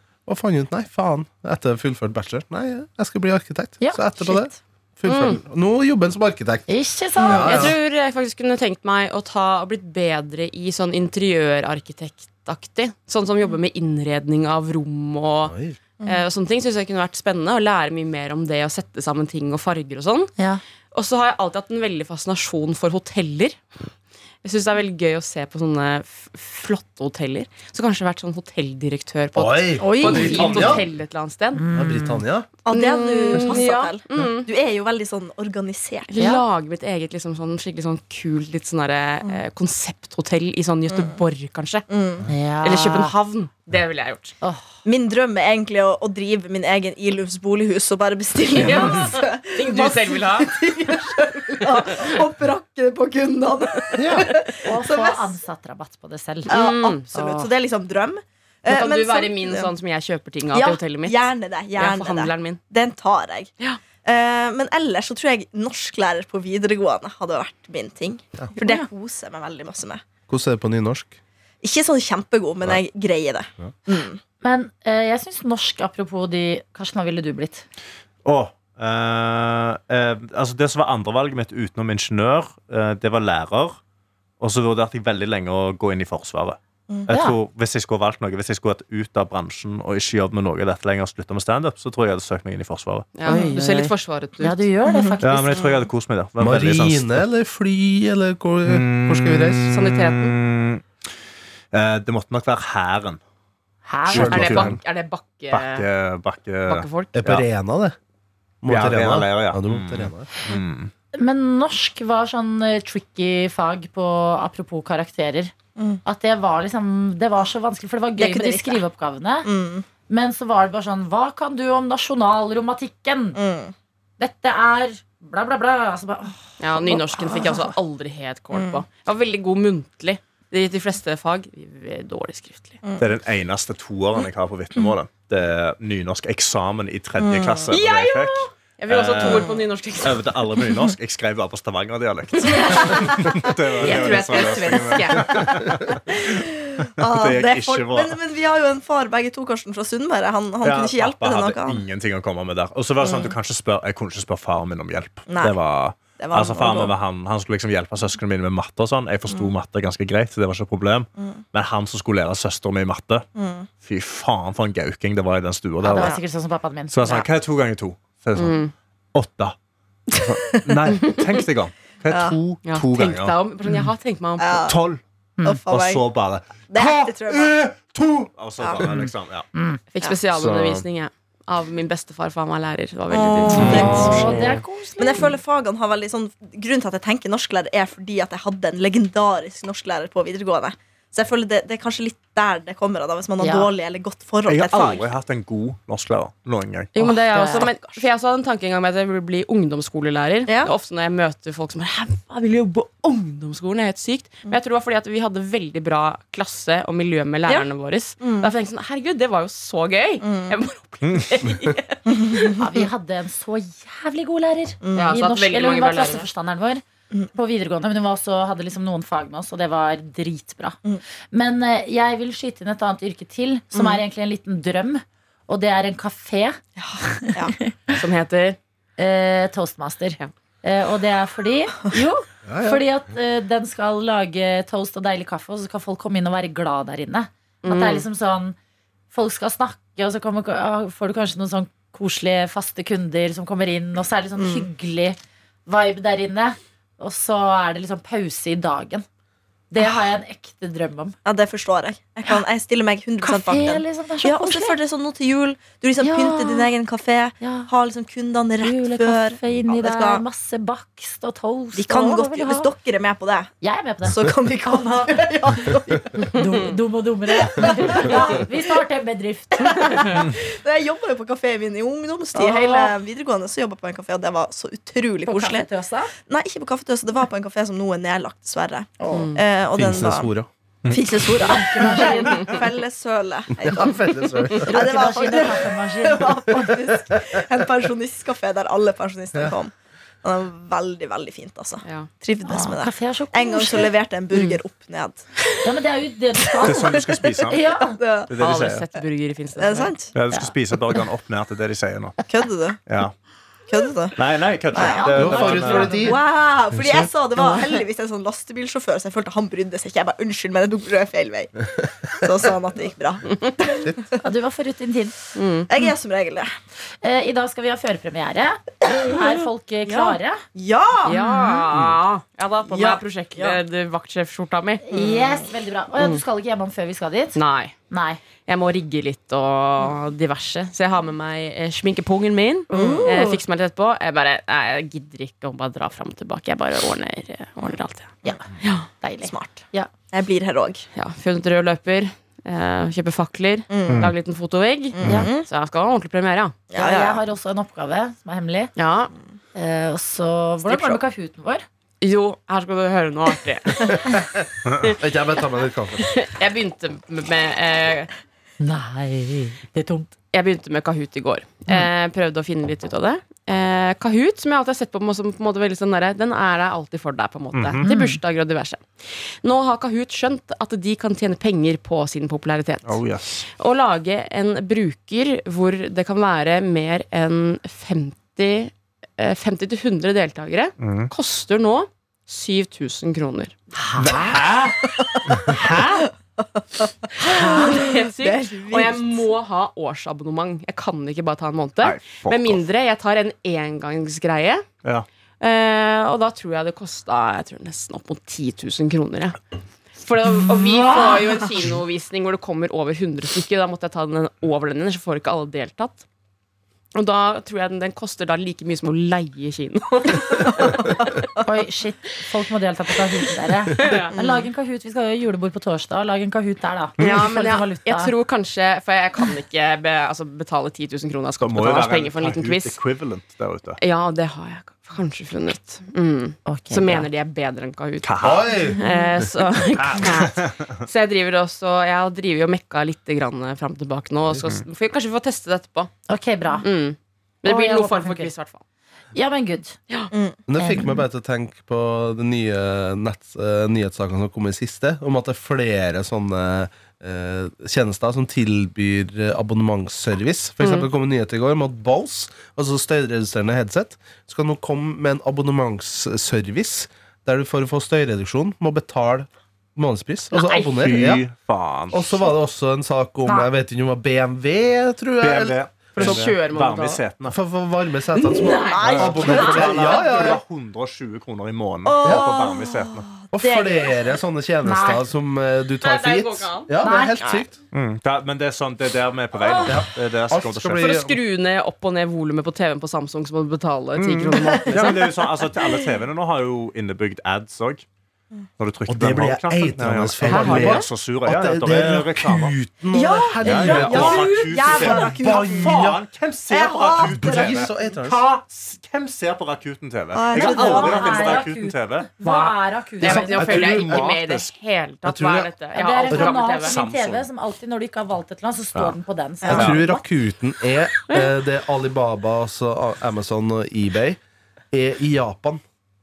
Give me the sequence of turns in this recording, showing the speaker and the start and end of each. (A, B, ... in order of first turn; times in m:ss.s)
0:00.3-0:07.8 A
0:03.8-0:04.6 B
0:05.1-0:05.4 C
0:06.7-0:07.7 B
0:07.3-0:20.3 C
0:15.4-0:15.8 A
0:20.9-0:23.8 C
0:24.4-0:31.6 C
0:29.3-0:30.9 A
0:29.8-0:30.8 D
0:30.2-0:30.8 E
0:31.5-0:32.2 B
0:31.7-0:32.5 A
0:32.6-0:36.1 D
0:32.7-0:34.5 C
0:36.1-0:41.9 C
0:36.2-0:36.4 B
0:41.9-0:42.3 D
0:42.3-0:43.1 B
0:42.6-0:44.4 C
0:44.4-0:44.7 B
0:44.8-0:55.4 D
0:48.5-0:50.6 C
0:54.0-0:54.3 A
0:54.6-0:56.6 B
0:56.5-0:57.0 C
0:56.5-0:59.7 D
0:57.1-0:57.5 B
0:58.7-1:01.2 C
1:00.5-1:03.5 D
1:01.8-1:02.6 C
1:04.0-1:10.0 D
1:10.3-1:11.2 A
1:11.6-1:14.2 D
1:14.4-1:17.6 B
1:18.2-1:23.8 E
1:24.4-1:33.1 E
1:27.1-1:27.4 B
1:33.2-1:34.6 C
1:33.3-1:35.7 B
1:34.9-1:35.8 D
1:35.2-1:37.2 E
1:36.4-1:39.7 A
1:38.7-1:40.8 E
1:39.7-1:40.4 C
1:41.7-1:43.2 E
1:43.9-1:44.6 B
1:44.1-1:44.8 A
1:44.1-1:44.8 E
1:44.2-1:45.9 C
1:45.5-1:47.4 E
1:46.7-1:47.1 C
1:47.1-1:48.0 A
1:48.6-1:50.3 A
1:48.7-1:50.9 E
1:51.2-1:55.5 B
1:56.0-1:59.5 B
1:58.2-1:58.8 D
1:59.4-1:59.8 D
2:00.1-2:03.4 B
2:03.4-2:03.7 D
2:04.2-2:07.0 B
2:06.6-2:12.8 C
2:07.0-2:07.7 D
2:08.5-2:08.8 D
2:12.8-2:13.1 D
2:13.0-2:26.3 E
2:17.2-2:17.7 D
2:17.7-2:20.4 C
2:19.2-2:19.5 D
2:22.4-2:25.5 C
2:23.8-2:24.6 D
2:26.1-2:31.8 D
2:27.0-2:28.2 E
2:30.6-2:43.3 E
2:33.0-2:33.4 D
2:35.3-2:35.6 D
2:36.2-2:37.0 D
2:43.4-2:43.7 D
2:43.8-2:46.2 E
2:45.8-2:47.3 B
2:46.9-2:49.6 E
2:48.4-2:48.7 C
2:50.2-2:53.4 E
2:50.3-2:51.0 D
2:52.1-2:52.4 D
2:52.6-2:54.7 C
2:54.4-2:54.8 D
2:54.7-2:55.0 E
2:55.4-2:56.1 D
2:55.7-2:59.5 E
2:56.7-2:57.6 D
2:58.6-2:58.9 D
2:59.0-2:59.8 B
2:59.9-3:04.1 C
3:00.4-3:00.8 E
3:03.1-3:15.1 D
3:03.6-3:04.6 E
3:03.6-3:05.3 B
3:13.4-3:13.7 B
3:14.5-3:17.0 E
3:17.0-3:32.4 C
3:17.0-3:17.7 B
3:17.4-3:18.0 D
3:20.5-3:20.7 D
3:28.2-3:28.5 D
3:30.2-3:30.6 D
3:31.0-3:31.3 E
3:32.1-3:32.8 D
3:32.6-3:40.8 B
3:34.8-3:35.1 D
3:35.0-3:36.3 C
3:41.3-3:46.6 B
3:43.7-3:44.0 D
3:46.8-3:47.5 D
3:47.2-3:47.8 B
3:47.9-3:48.6 C
3:49.0-3:58.6 B
3:52.5-3:52.8 A
3:57.6-3:58.1 C
3:59.1-4:09.0 B
4:04.4-4:04.7 D
4:09.7-4:11.2 B
4:11.2-4:20.2 D
4:13.2-4:14.8 B
4:16.0-4:16.7 B
4:17.4-4:17.7 B
4:18.6-4:22.7 B
4:21.8-4:23.5 D
4:23.6-4:25.7 B
4:24.1-4:26.4 D
4:26.3-4:30.3 B
4:27.4-4:28.5 D
4:29.6-4:35.7 D
4:32.4-4:32.9 C
4:35.2-4:36.1 B
4:36.3-4:40.3 D
4:39.0-4:39.4 B
4:39.1-4:39.4 C
4:39.7-4:40.5 A
4:40.8-4:41.1 E
4:40.9-4:55.3 D
4:41.4-4:42.6 B
4:43.6-4:44.9 A
4:44.6-4:46.8 B
4:51.8-4:52.1 C
4:52.4-4:53.9 B
4:54.3-4:54.6 C
4:55.6-4:58.0 B
4:56.6-4:57.7 E
4:56.6-4:57.4 D
4:57.9-4:58.3 D
4:58.3-4:58.9 E
4:58.4-5:00.0 C
4:59.6-5:00.1 D
5:00.1-5:02.2 E
5:02.3-5:02.8 D
5:02.9-5:03.1 E
5:03.7-5:04.2 D
5:04.2-5:06.1 E
5:04.7-5:14.1 D
5:04.8-5:06.2 B
5:05.1-5:06.2 A
5:14.2-5:15.1 B
5:15.4-5:15.7 C
5:15.7-5:16.5 D
5:17.0-5:20.4 B
5:18.9-5:19.4 D
5:19.9-5:21.6 D
5:21.0-5:24.8 C
5:22.7-5:23.6 D
5:24.8-5:27.4 B
5:24.9-5:25.5 D
5:27.4-5:27.8 C
5:27.9-5:28.2 B
5:28.5-5:38.9 C
5:32.7-5:33.1 D
5:32.7-5:33.4 B
5:39.0-5:39.9 B
5:39.2-5:40.9 D
5:40.9-5:46.6 C
5:43.7-5:44.1 D
5:43.9-5:44.1 E
5:45.0-5:45.5 D
5:46.7-5:47.2 D
5:46.8-5:48.7 B
5:48.8-5:49.1 C
5:49.6-5:51.6 B
5:52.0-5:54.1 C
5:54.7-5:54.9 E
5:54.8-5:56.1 A
5:56.0-5:58.1 C
5:58.6-6:00.1 B
6:00.3-6:23.6 C
6:07.5-6:07.8 E
6:07.8-6:08.2 B
6:12.8-6:13.4 E
6:20.8-6:21.1 E
6:23.8-6:24.4 B
6:24.0-6:26.0 E
6:25.4-6:26.0 C
6:26.4-6:29.3 D
6:27.2-6:34.7 C
6:27.3-6:27.8 B
6:31.8-6:32.6 E
6:35.4-6:39.4 C
6:40.0-6:46.0 C
6:47.0-6:51.0 C
6:51.4-6:58.1 B
6:53.8-6:54.2 C
6:54.2-6:54.4 D
6:57.0-7:02.8 C
6:57.0-6:57.3 E
7:01.4-7:03.8 E
7:03.8-7:15.9 C
7:06.5-7:07.1 B
7:08.0-7:08.5 E
7:08.2-7:08.8 A
7:08.8-7:09.1 B
7:09.8-7:10.7 E
7:16.1-7:16.6 B
7:16.6-7:18.6 C
7:17.4-7:18.3 B
7:19.1-7:19.8 B
7:20.1-7:20.4 D
7:20.5-7:41.3 A
7:20.6-7:21.0 B
7:30.6-7:30.9 C
7:40.6-7:42.2 E
7:41.9-7:46.2 A
7:45.2-7:47.4 E
7:45.9-7:47.0 C
7:47.3-7:50.4 A
7:48.3-7:49.4 C
7:48.4-7:50.4 D
7:48.8-7:53.1 E
7:51.8-7:53.9 D
7:52.0-7:52.3 A
7:53.3-7:57.6 A
7:54.6-7:55.0 B
7:55.8-7:56.7 C
7:56.8-7:57.2 B
7:56.9-7:57.5 D
7:57.7-8:00.9 E
7:59.6-8:01.2 A
8:00.8-8:05.1 C
8:04.0-8:07.9 E
8:04.5-8:05.7 D
8:08.6-8:12.6 E
8:08.9-8:16.0 A
8:10.3-8:10.8 C
8:12.9-8:16.0 D
8:13.4-8:24.5 E
8:16.5-8:17.6 D
8:16.9-8:18.2 A
8:20.1-8:21.4 D
8:20.3-8:23.4 B
8:23.0-8:26.8 C
8:23.0-8:24.1 A
8:25.0-8:25.5 A
8:25.7-8:30.0 B
8:26.1-8:27.3 E
8:29.4-8:29.7 D
8:29.5-8:34.2 A
8:29.5-8:29.8 E
8:34.7-8:35.6 A